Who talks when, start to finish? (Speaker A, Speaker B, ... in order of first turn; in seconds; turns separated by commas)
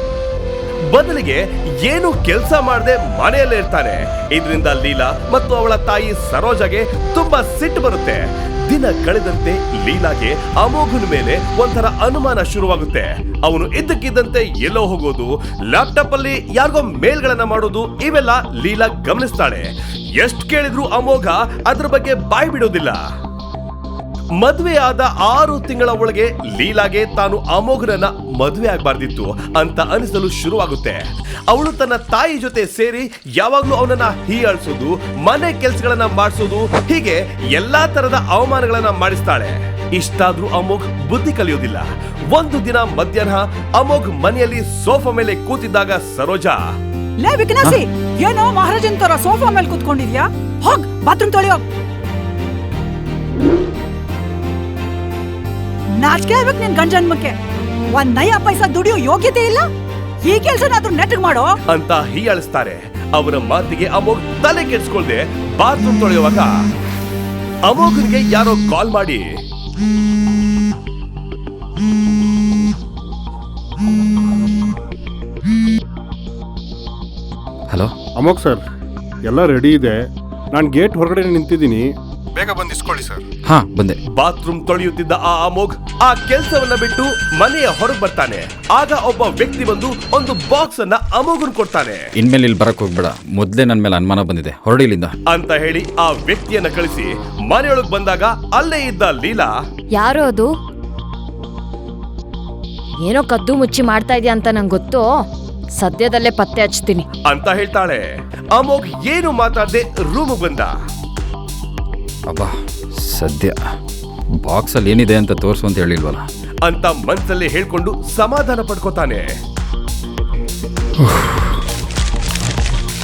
Speaker A: 0.9-23.0, Speaker A: 24.4-46.6, Speaker B: 47.2-51.6, Speaker B: 56.0-57.4, Speaker B: 57.9-59.7, Speaker B: 60.2-61.5, Speaker A: 61.7-66.5, Speaker A: 67.7-69.3, Speaker C: 78.2-78.6, Speaker C: 79.2-80.0, Speaker C: 80.5-81.9, Speaker C: 82.5-83.1, Speaker D: 83.5-84.0, Speaker A: 84.2-92.0, Speaker D: 92.2-95.1, Speaker A: 95.3-99.5, Speaker E: 100.0-100.5, Speaker E: 103.1-105.0, Speaker E: 105.8-107.0, Speaker A: 107.3-110.7, Speaker D: 113.1-113.6, Speaker D: 114.4-116.2, Speaker A: 116.7-119.3, Speaker D: 121.1-121.4